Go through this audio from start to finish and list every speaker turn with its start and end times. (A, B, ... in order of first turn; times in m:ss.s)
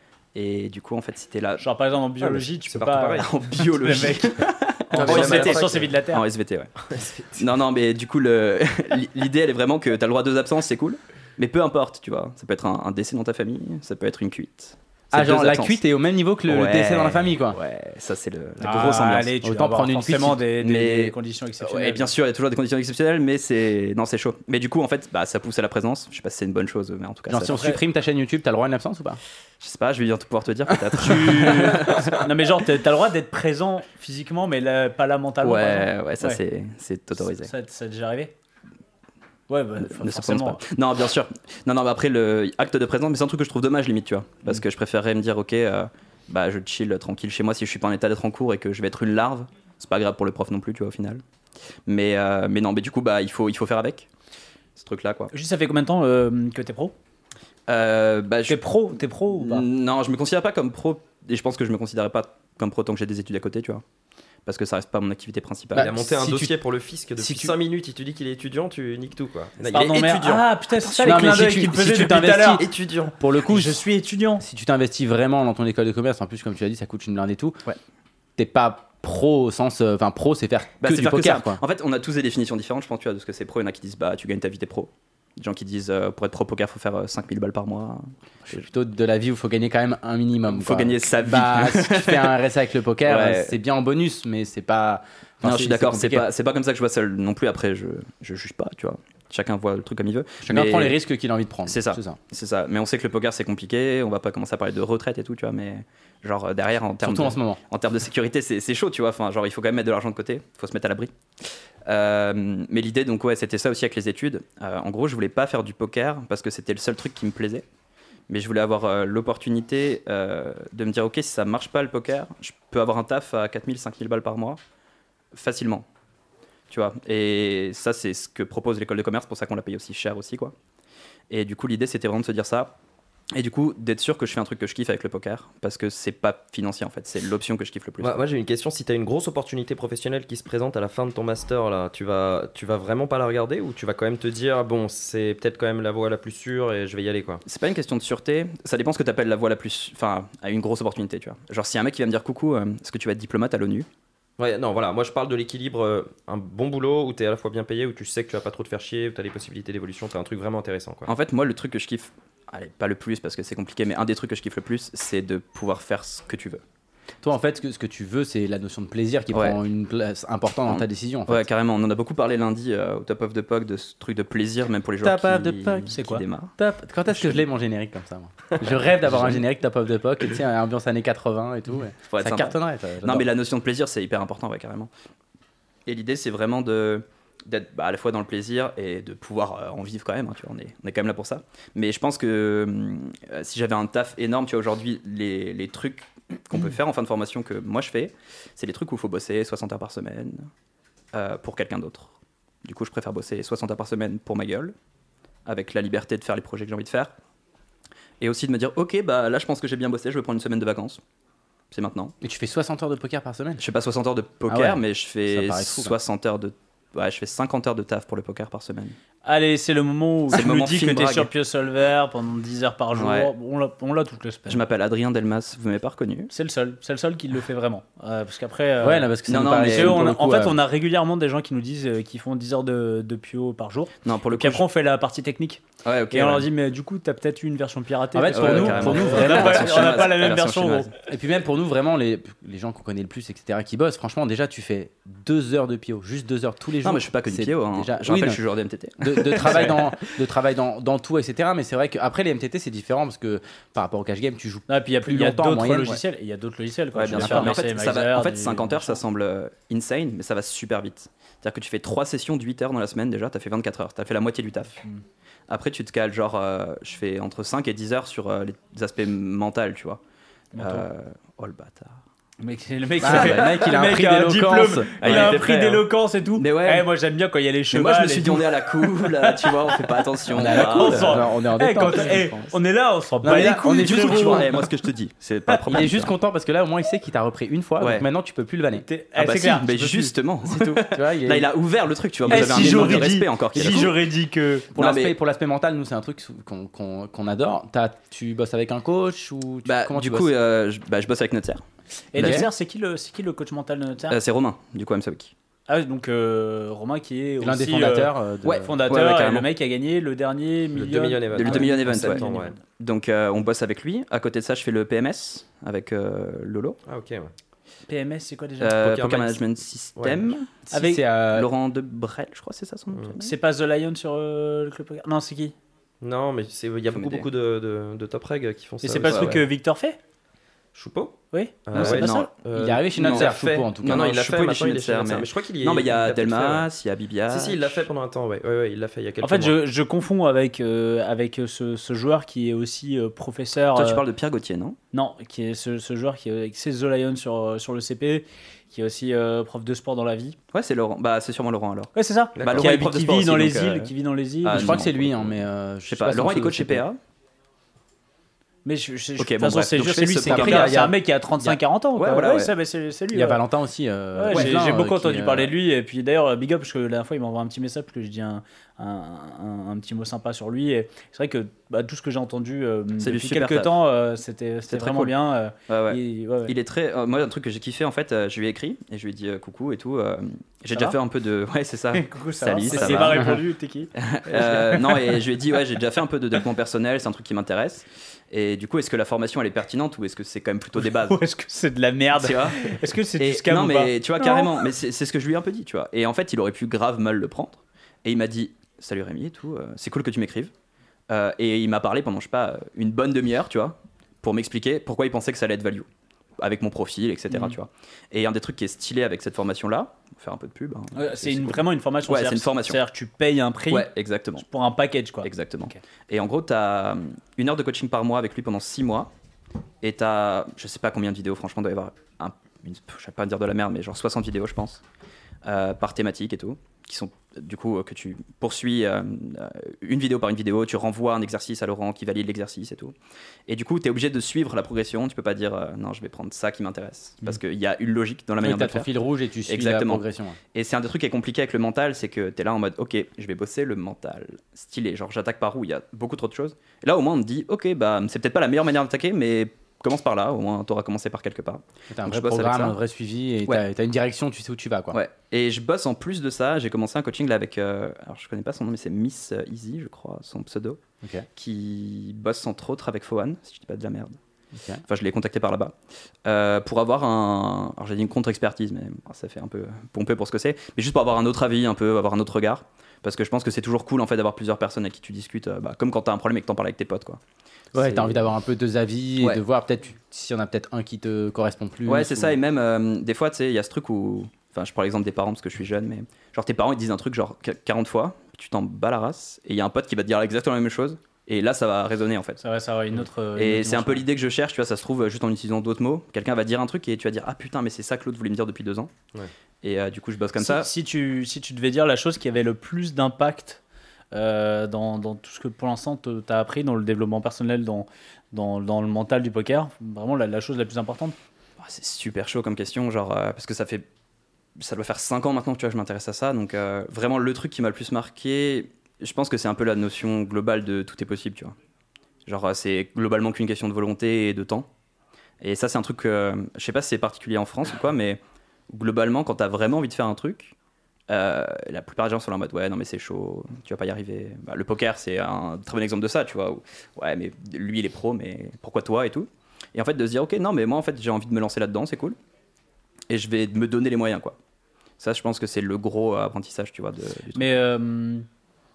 0:00.3-0:01.6 A
0:01.6-0:04.4 B
0:02.7-0:03.3 C
0:03.1-0:06.7 A
0:04.9-0:06.2 B
0:04.9-0:05.9 C
0:06.9-0:07.2 C
0:07.3-0:15.8 A
0:15.1-0:17.6 D
0:16.5-0:19.3 A
0:18.6-0:20.4 D
0:18.6-0:22.1 B
0:20.6-0:27.6 A
0:27.3-0:29.2 D
0:27.5-0:27.8 B
0:29.6-0:32.2 A
0:31.0-0:31.6 D
0:31.0-0:36.4 B
0:35.4-0:37.5 A
0:37.2-0:38.3 B
0:39.5-0:40.6 B
0:39.8-0:51.2 A
0:51.9-0:54.1 A
0:54.8-0:55.3 A
0:55.3-0:56.9 B
0:57.7-0:58.7 A
0:58.5-0:59.6 B
0:59.3-1:03.8 A
1:04.4-1:05.9 A
1:05.7-1:06.6 D
1:05.7-1:10.5 C
1:07.2-1:07.5 D
1:09.7-1:12.6 B
1:11.0-1:13.8 D
1:12.0-1:13.1 C
1:13.5-1:14.4 B
1:14.4-1:17.6 D
1:18.4-1:21.6 D
1:20.8-1:28.6 A
1:28.5-1:36.3 D
1:30.5-1:32.4 A
1:33.0-1:33.6 A
1:35.4-1:41.0 A
1:40.4-1:42.2 D
1:41.7-1:51.1 A
1:47.0-1:47.6 D
1:51.8-1:57.6 A
1:58.3-2:04.6 A
2:05.3-2:05.9 A
2:06.7-2:10.5 A
2:11.3-2:12.8 A
2:13.3-2:18.2 A
2:18.0-2:27.4 C
2:27.4-2:33.9 A
2:34.4-2:41.1 C
2:41.1-2:46.6 A
2:47.2-2:51.4 D
2:49.3-2:49.6 A
2:50.7-2:56.5 A
2:55.0-3:03.3 D
2:55.9-2:56.2 B
2:57.1-2:57.4 A
2:59.0-2:59.4 A
3:02.1-3:04.9 A
3:05.8-3:20.5 A
3:21.1-3:24.7 A
3:25.4-3:27.1 A
3:28.2-3:31.0 A
3:31.7-3:32.1 A
3:32.2-3:33.6 D
3:33.6-3:38.9 A
3:34.5-3:36.0 D
3:39.2-3:44.6 B
3:40.3-3:41.3 A
3:42.9-3:43.3 A
3:44.5-3:46.3 A
3:46.3-3:49.1 B
3:48.8-3:50.6 D
3:49.3-3:50.0 A
3:49.6-4:00.9 B
3:54.0-3:54.6 A
3:55.8-3:56.5 A
3:58.1-4:00.1 D
3:58.3-4:00.9 A
4:01.1-4:08.4 D
4:06.8-4:09.9 A
4:09.0-4:16.0 D
4:14.7-4:19.0 B
4:16.9-4:24.8 A
4:17.1-4:17.5 D
4:25.5-4:30.0 A
4:30.5-4:30.8 B
4:30.6-4:32.0 A
4:32.4-4:44.5 B
4:33.0-4:35.4 D
4:33.0-4:33.6 A
4:35.0-4:36.9 A
4:37.7-4:41.3 A
4:40.3-4:42.3 D
4:41.8-4:42.5 A
4:43.2-4:44.6 D
4:43.8-4:46.1 A
4:45.7-4:48.8 D
4:47.8-4:48.1 A
4:48.7-4:50.1 B
4:49.2-4:54.0 A
4:50.4-4:51.5 D
4:52.2-4:53.9 D
4:52.3-4:54.7 B
4:54.7-5:00.3 D
4:54.8-4:55.1 A
4:59.6-5:01.6 A
5:02.1-5:04.2 B
5:02.2-5:02.5 D
5:02.2-5:02.5 A
5:04.1-5:05.3 A
5:05.7-5:12.6 B
5:07.4-5:08.8 D
5:08.9-5:09.5 A
5:10.7-5:12.5 C
5:11.3-5:16.8 A
5:16.9-5:17.3 C
5:17.9-5:18.8 B
5:18.6-5:20.5 A
5:18.8-5:19.4 C
5:20.0-5:20.3 C
5:20.7-5:21.5 D
5:20.7-5:21.0 B
5:21.3-5:23.3 A
5:23.2-5:25.5 B
5:26.0-5:29.4 C
5:26.9-5:27.3 A
5:28.8-5:30.0 B
5:29.1-5:29.4 A
5:30.7-5:36.7 C
5:31.3-5:32.3 B
5:31.7-5:32.3 A
5:32.5-5:34.0 D
5:33.0-5:37.9 A
5:37.3-5:39.6 C
5:39.2-5:44.0 B
5:43.7-5:44.8 A
5:44.9-5:50.4 B
5:50.5-5:57.0 A
5:51.9-5:54.8 B
5:52.4-5:52.7 C
5:54.5-5:56.8 D
5:58.6-6:03.4 B
5:59.2-6:00.8 A
6:00.2-6:01.6 D
6:02.0-6:02.5 A
6:03.1-6:05.5 D
6:04.1-6:16.5 B
6:13.0-6:13.7 A
6:14.7-6:15.2 A
6:15.7-6:23.4 A
6:21.9-6:25.2 B
6:22.7-6:23.3 D
6:24.0-6:31.2 A
6:30.8-6:34.6 B
6:32.2-6:40.5 A
6:41.1-6:45.9 A
6:46.4-6:52.8 A
6:50.9-6:55.8 B
6:53.7-6:54.4 A
6:55.2-6:59.1 A
6:59.8-7:04.8 A
7:05.4-7:12.9 A
7:13.5-7:18.9 A
7:18.4-7:20.4 D
7:19.5-7:32.8 A
7:31.9-7:35.0 D
7:34.9-7:40.8 A
7:41.0-7:41.3 D
7:41.4-7:44.2 A
7:44.5-7:44.8 D
7:44.9-7:45.7 A
7:46.2-7:57.2 A
7:57.7-7:58.2 A
7:57.7-8:02.4 D
8:01.8-8:12.4 A
8:12.4-8:14.0 B
8:13.4-8:18.9 A
8:19.6-8:20.7 A
8:20.4-8:23.6 B
8:24.1-8:31.2 B
8:31.6-8:33.8 A
8:34.6-8:41.6 A
8:42.2-8:44.7 A
8:45.4-8:50.5 A
8:51.1-9:02.2 A
9:03.1-9:04.4 A
9:05.0-9:07.6 A
9:07.4-9:08.2 B